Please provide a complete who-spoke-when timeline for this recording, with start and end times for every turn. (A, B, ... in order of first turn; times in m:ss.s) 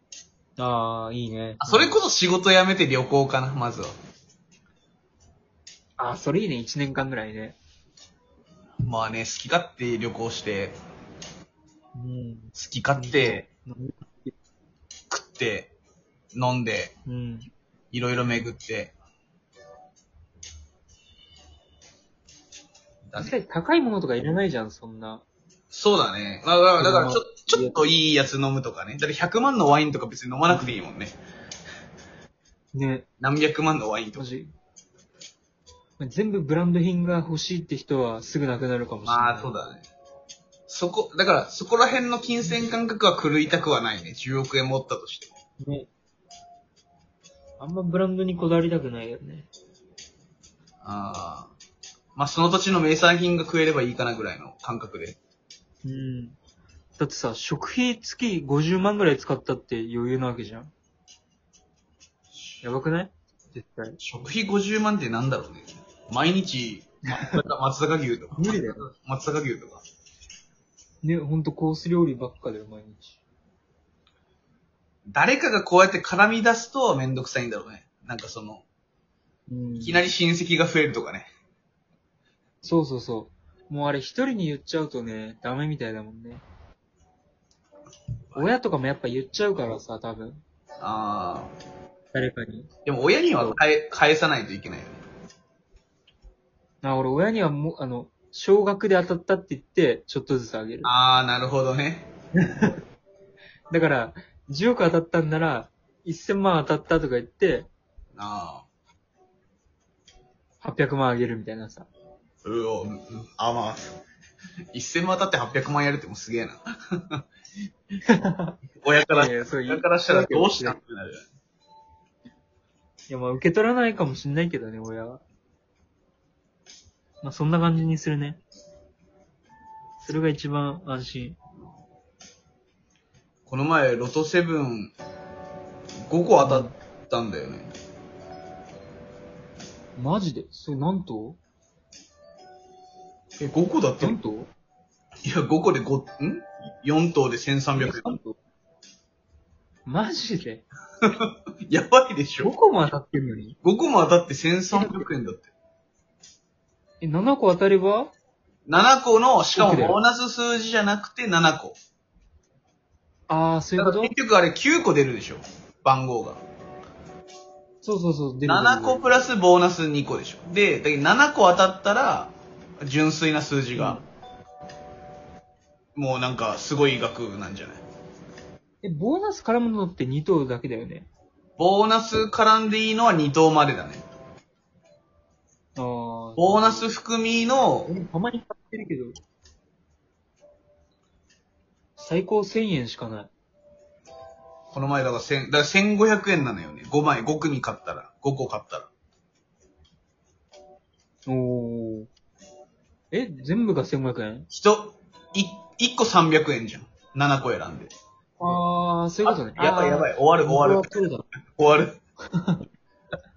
0:00.6-0:02.0 A
0:01.6-0:03.9 B
0:06.0-0:07.6 A
0:08.8-0:10.8 B
0:12.0-0:14.4 A
0:12.6-0:13.4 B
0:15.1-0:15.7 B
0:16.3-0:16.9 B
0:17.1-0:17.5 A
0:17.9-0:18.9 B
0:23.2-0:25.2 A
0:25.7-0:31.2 B
0:26.8-0:27.8 A
0:30.5-0:30.8 A
0:32.7-0:33.1 A
0:33.2-0:34.2 B
0:34.2-0:34.5 A
0:36.0-0:39.5 A
0:39.0-0:39.9 B
0:40.7-0:45.3 B
0:45.6-0:45.9 A
0:47.6-0:49.5 A
0:50.8-0:51.5 B
0:52.2-0:55.2 B
0:55.8-0:56.4 A
0:57.0-1:00.7 A
1:02.6-1:04.0 A
1:04.0-1:09.8 B
1:07.1-1:07.4 A
1:08.3-1:08.9 A
1:11.0-1:13.2 A
1:15.1-1:18.6 B
1:19.5-1:20.0 A
1:19.8-1:21.3 B
1:22.6-1:26.4 A
1:28.4-1:30.4 A
1:30.8-1:31.5 B
1:32.1-1:32.7 A
1:32.9-1:35.0 B
1:36.8-1:40.9 A
1:40.8-1:42.1 B
1:42.5-1:42.8 A
1:43.7-1:47.7 A
1:48.2-1:48.7 B
1:50.6-1:51.9 A
1:52.4-1:54.0 B
1:54.7-1:57.2 B
1:58.1-1:58.6 A
1:58.8-2:01.3 B
1:59.1-2:00.8 A
2:03.1-2:05.2 A
2:07.2-2:08.4 A
2:10.0-2:11.4 A
2:13.5-2:14.9 B
2:16.1-2:17.7 B
2:16.4-2:16.7 A
2:20.0-2:21.4 A
2:23.4-2:24.2 B
2:24.0-2:24.5 A
2:25.2-2:28.1 B
2:27.8-2:28.4 A
2:29.9-2:30.6 A
2:31.1-2:32.5 B
2:32.4-2:33.6 A
2:33.6-2:35.5 B
2:34.7-2:35.1 A
2:37.0-2:38.1 A
2:38.7-2:41.8 B
2:39.6-2:40.0 A
2:43.3-2:44.1 A
2:43.8-2:46.4 B
2:47.8-2:49.1 A
2:48.4-2:54.0 B
2:53.8-2:54.0 A
2:56.0-2:57.8 B
2:58.8-3:01.1 A
3:01.6-3:04.0 B
3:05.8-3:06.9 A
3:06.4-3:07.9 B
3:07.9-3:09.2 A
3:12.0-3:13.3 A
3:14.7-3:18.9 B
3:21.3-3:22.1 A
3:23.1-3:24.5 A
3:24.5-3:27.9 B
3:28.4-3:31.3 A
3:29.3-3:30.9 B
3:31.6-3:32.0 B
3:32.3-3:32.6 A